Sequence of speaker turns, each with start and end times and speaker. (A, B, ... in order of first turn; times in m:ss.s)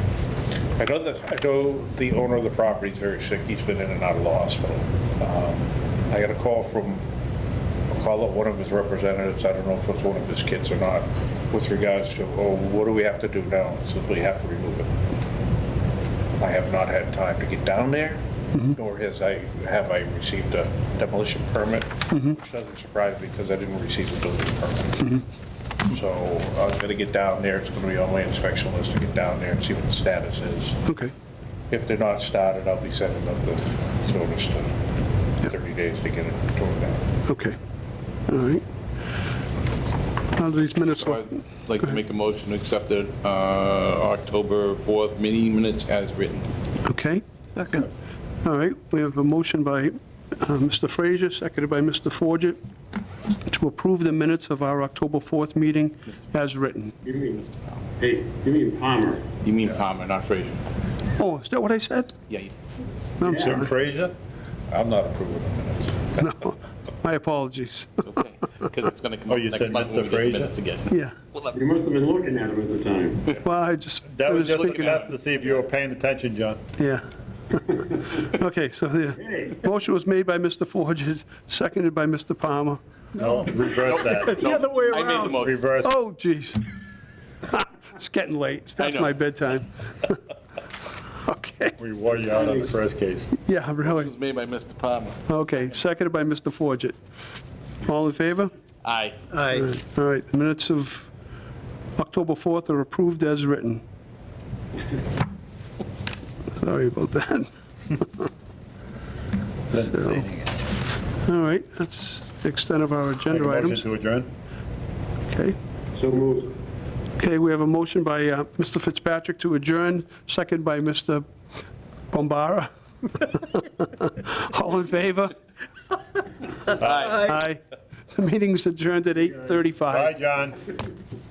0:00.8-0:07.0 A
0:07.9-0:14.9 A
0:16.4-0:18.2 A
0:18.7-0:25.2 A
0:25.9-0:30.8 A
0:30.9-0:31.1 B
0:31.7-0:34.7 A
0:35.4-0:37.0 A
0:37.3-0:37.6 B
0:38.3-0:38.6 B
0:40.4-0:41.4 B
0:41.0-0:46.5 C
0:46.8-0:47.2 B
0:48.4-0:52.6 B
0:53.5-0:57.0 B
0:57.0-0:59.3 D
0:59.4-1:00.6 C
1:01.2-1:02.1 B
1:03.2-1:03.7 B
1:03.2-1:03.6 D
1:03.3-1:04.1 E
1:04.7-1:06.4 A
1:06.2-1:08.1 B
1:08.0-1:11.5 C
1:09.3-1:10.5 E
1:10.9-1:11.1 B
1:11.5-1:13.4 D
1:13.4-1:15.1 B
1:14.0-1:16.6 E
1:14.5-1:15.6 C
1:16.8-1:22.8 B
1:19.2-1:19.5 D
1:23.2-1:24.5 E
1:23.8-1:25.6 C
1:25.2-1:25.9 E
1:25.8-1:26.6 B
1:27.5-1:30.2 B
1:28.8-1:29.1 C
1:31.2-1:31.8 B
1:31.8-1:33.3 E
1:32.0-1:32.8 D
1:33.3-1:34.1 B
1:33.8-1:35.2 C
1:35.3-1:37.0 B
1:37.8-1:38.5 B
1:38.8-1:39.4 C
1:39.4-1:41.1 B
1:42.0-1:43.8 B
1:46.6-1:48.3 B
1:49.7-1:50.5 E
1:51.2-1:53.9 B
1:53.3-1:54.3 E
1:55.3-1:55.6 B
1:55.9-1:56.5 D
1:57.2-2:01.2 B
2:02.1-2:05.3 B
2:06.8-2:07.1 E
2:06.8-2:07.2 C
2:07.1-2:07.6 B
2:08.1-2:10.1 B
2:09.9-2:10.7 E